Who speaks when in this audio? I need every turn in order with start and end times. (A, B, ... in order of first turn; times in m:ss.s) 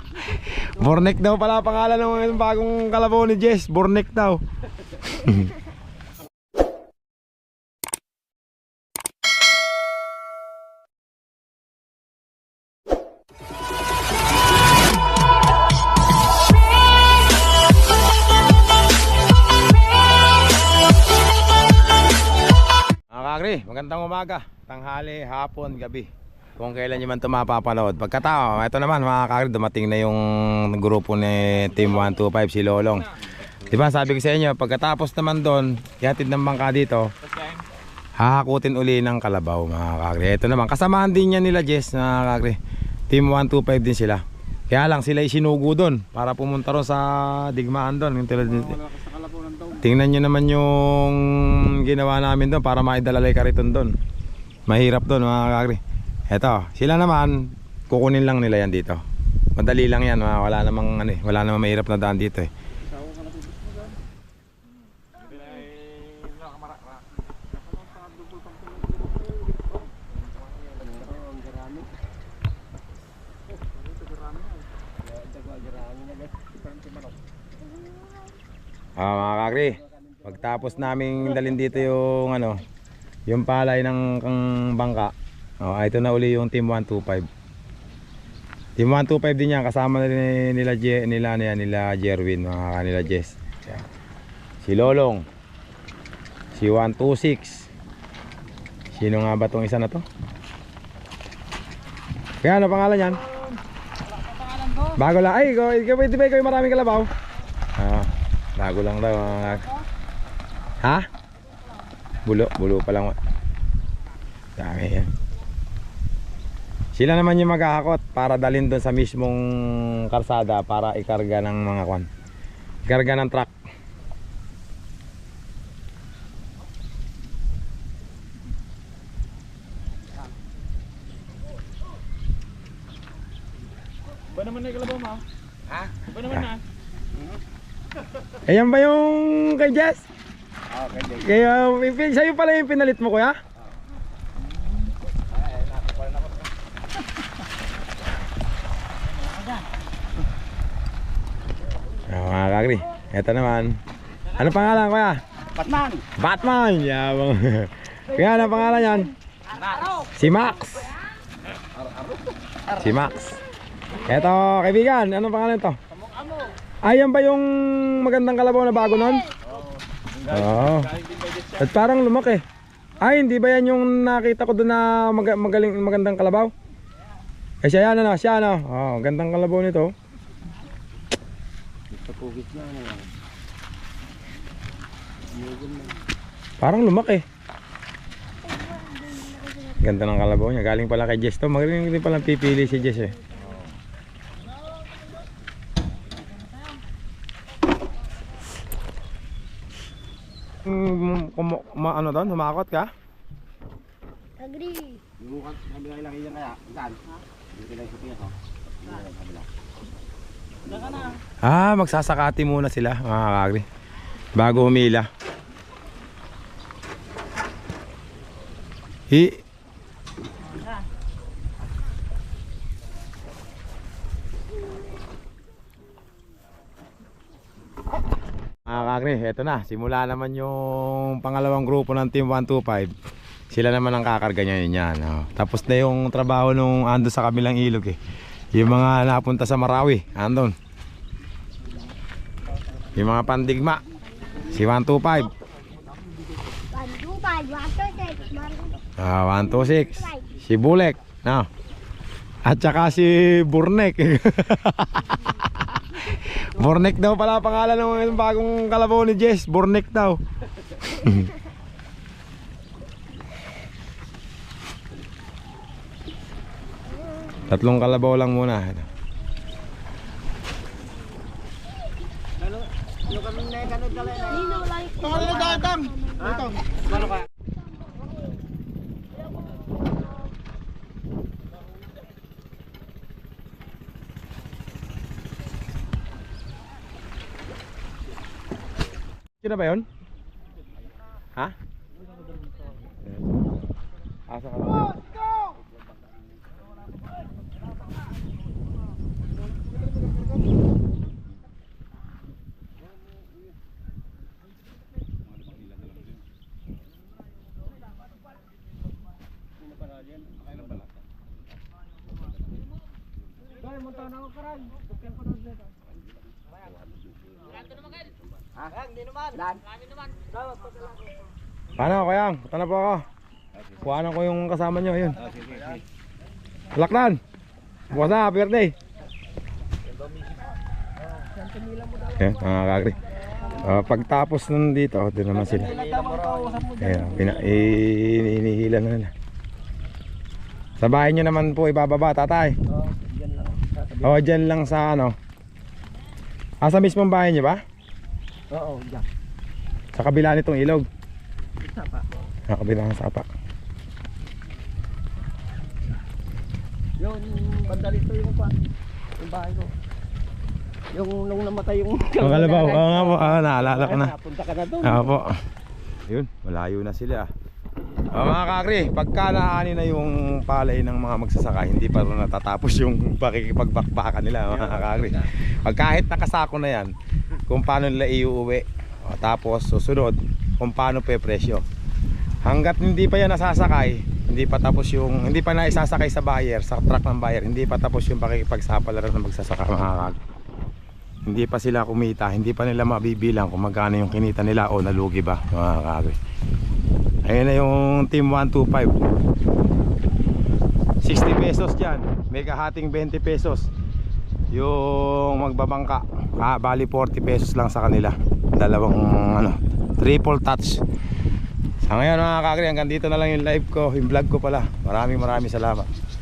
0:00.3-0:04.4 A
0:05.0-0:05.5 A
0:23.1-0:37.1 A
0:38.2-0:42.6 A
0:43.1-0:49.0 A
0:49.0-0:49.6 B
0:49.6-0:53.9 A
0:54.7-0:59.0 A
0:59.5-1:02.5 A
1:02.9-1:03.9 B
1:08.0-1:08.7 B
1:10.7-1:11.9 B
1:14.2-1:14.5 B
1:15.0-1:17.1 B
1:17.6-1:18.3 C
1:19.0-1:22.6 A
1:23.3-1:27.3 A
1:28.8-1:33.8 A
1:34.6-1:35.2 A
1:36.5-1:37.7 A
1:38.9-1:40.0 A
1:42.4-1:43.2 A
1:44.8-1:47.1 A
1:47.8-1:49.8 A
1:52.2-1:53.2 A
1:54.6-1:55.1 A
1:56.9-2:02.0 A
2:02.9-2:03.5 A
2:16.1-2:16.5 A
2:18.4-2:20.0 A
2:21.0-2:23.4 A
2:32.1-2:33.8 A
2:34.3-2:35.2 A
2:35.6-2:36.0 B
2:36.1-2:39.1 A
2:39.9-2:40.9 A
2:41.8-2:42.2 B
2:42.7-2:43.4 A
2:44.0-2:45.8 A
2:46.8-2:49.3 A
2:50.2-2:52.4 A
2:53.0-2:56.5 A
2:57.6-2:59.9 A
3:01.9-3:03.1 B
3:05.3-3:06.0 B
3:06.6-3:07.2 A
3:08.4-3:09.8 C
3:09.8-3:13.2 A
3:20.6-3:22.9 A
3:24.4-3:25.0 C
3:25.2-3:27.0 B
3:27.5-3:28.3 B
3:28.9-3:29.4 B
3:30.8-3:31.1 B
3:31.4-3:33.6 A
3:34.3-3:35.1 A
3:39.1-3:39.4 A
3:48.6-3:52.9 A
3:53.5-3:58.0 A
3:58.5-4:00.5 A
4:02.9-4:03.8 A
4:04.4-4:05.3 A
4:06.7-4:08.8 C
4:09.0-4:11.5 A
4:12.4-4:15.1 A
4:16.0-4:20.2 A
4:20.8-4:21.3 A
4:27.5-4:28.8 A
4:33.0-4:34.6 B
4:34.1-4:36.4 C
4:35.0-4:36.6 A
4:49.4-4:49.9 A
4:54.3-4:55.0 A
5:13.8-5:15.7 B
5:21.8-5:23.0 A
5:23.8-5:25.3 A
5:26.7-5:27.2 A
5:27.9-5:28.7 A
5:31.2-5:32.3 B
5:32.2-5:33.0 A
5:33.5-5:35.8 A
5:35.4-5:37.6 B
5:36.8-5:39.1 A
5:40.8-5:42.6 A
5:42.7-5:44.2 B
5:44.0-5:45.2 A
5:46.6-5:47.6 A
5:48.5-5:49.0 B
5:49.9-5:50.8 A
5:51.6-5:52.0 B
5:52.5-5:53.2 A
5:57.0-5:59.7 B
6:00.9-6:05.1 B
6:02.2-6:04.1 A
6:04.8-6:05.4 A
6:06.1-6:07.3 A
6:08.1-6:16.9 A
6:14.7-6:15.2 B
6:17.5-6:21.6 A
6:22.4-6:30.2 A
6:31.2-6:36.2 A
6:37.2-6:39.0 A
6:41.0-6:43.7 A
6:44.5-6:50.8 A
6:51.8-6:55.9 A